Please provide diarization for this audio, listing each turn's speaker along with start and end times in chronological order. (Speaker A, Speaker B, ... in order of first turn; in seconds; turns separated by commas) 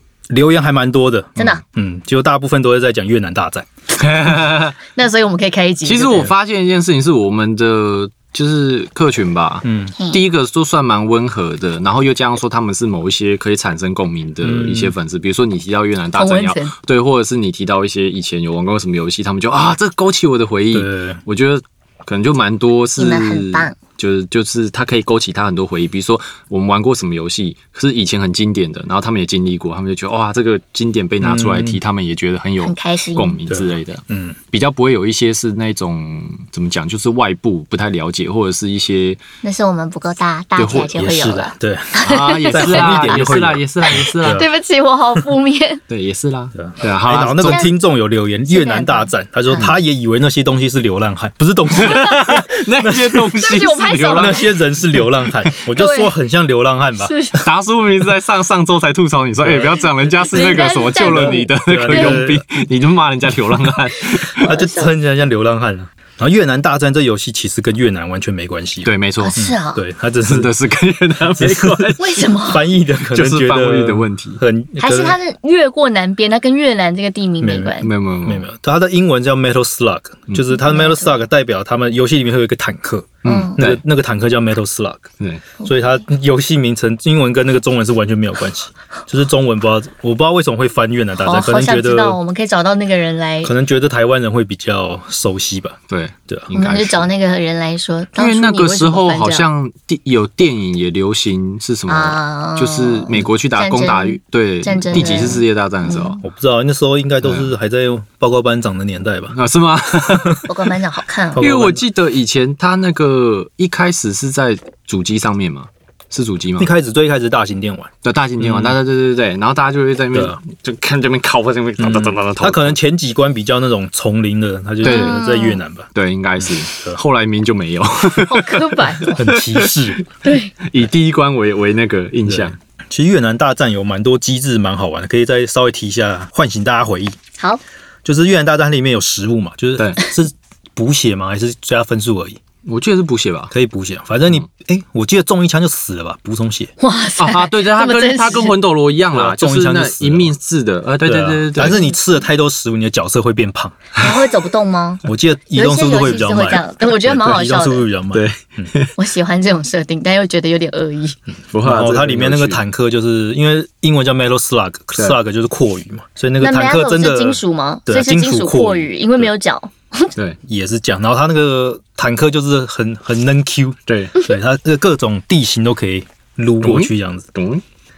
Speaker A: 0.3-3.7, Speaker B: 4.0-4.8, Speaker C: 4.9-6.3, Speaker B: 5.8-39.2, Speaker A: 9.7-9.9, Speaker C: 10.0-10.2, Speaker A: 14.4-14.9, Speaker C: 16.2-16.7, Speaker A: 20.7-21.2, Speaker C: 23.0-23.8, Speaker A: 31.2-31.8, Speaker C: 32.6-33.4, Speaker A: 33.5-34.4, Speaker C: 39.4-43.3, Speaker B: 40.6-41.0, Speaker A: 41.0-44.5, Speaker B: 42.0-44.5, Speaker C: 44.2-45.8, Speaker B: 45.9-47.7, Speaker A: 46.5-53.3, Speaker C: 47.4-47.7, Speaker C: 48.5-49.6, Speaker B: 51.8-54.5, Speaker C: 51.9-52.4, Speaker C: 53.4-54.5, Speaker A: 54.1-57.2, Speaker C: 55.8-56.1, Speaker C: 57.0-57.4, Speaker B: 57.4-64.5, Speaker A: 59.4-59.8, Speaker C: 60.3-62.2, Speaker A: 61.0-62.5, Speaker C: 64.3-64.9, Speaker A: 64.4-70.5, Speaker B: 68.8-69.3, Speaker C: 69.2-69.8, Speaker B: 70.2-72.4, Speaker A: 71.4-75.2, Speaker C: 72.0-72.6, Speaker B: 73.1-74.4, Speaker C: 74.8-77.9, Speaker A: 77.4-85.1, Speaker B: 77.8-78.5, Speaker C: 80.5-81.1, Speaker B: 83.2-83.8, Speaker C: 83.2-83.6, Speaker A: 85.7-92.2, Speaker C: 91.2-93.5, Speaker A: 93.4-95.8, Speaker B: 95.9-97.1, Speaker C: 96.5-99.5, Speaker B: 98.2-106.2, Speaker C: 101.9-106.2, Speaker A: 104.9-105.4, Speaker A: 106.2-109.4, Speaker B: 107.2-107.5, Speaker B: 109.3-110.5, Speaker A: 110.1-110.4, Speaker C: 110.5-111.5, Speaker A: 111.3-111.8, Speaker B: 111.4-116.7, Speaker A: 116.6-118.8, Speaker B: 118.0-122.8, Speaker A: 120.1-120.4, Speaker A: 121.8-127.0, Speaker C: 124.8-125.6, Speaker B: 124.8-125.2, Speaker B: 126.0-130.1, Speaker C: 128.3-129.2, Speaker A: 129.1-130.0, Speaker C: 130.2-130.5, Speaker B: 130.6-132.6, Speaker A: 132.3-137.2, Speaker A: 138.1-142.4, Speaker B: 139.8-140.0, Speaker B: 142.7-143.5, Speaker A: 143.5-146.7, Speaker C: 146.8-148.6, Speaker B: 147.2-151.8, Speaker A: 149.1-150.3, Speaker A: 151.0-153.9, Speaker C: 151.6-152.0, Speaker C: 154.0-157.9, Speaker A: 155.1-158.7, Speaker B: 158.1-158.9, Speaker C: 159.0-161.2, Speaker B: 161.5-162.6, Speaker A: 161.6-168.9, Speaker C: 166.4-170.1, Speaker A: 170.5-177.3, Speaker B: 173.9-174.2, Speaker B: 176.6-177.6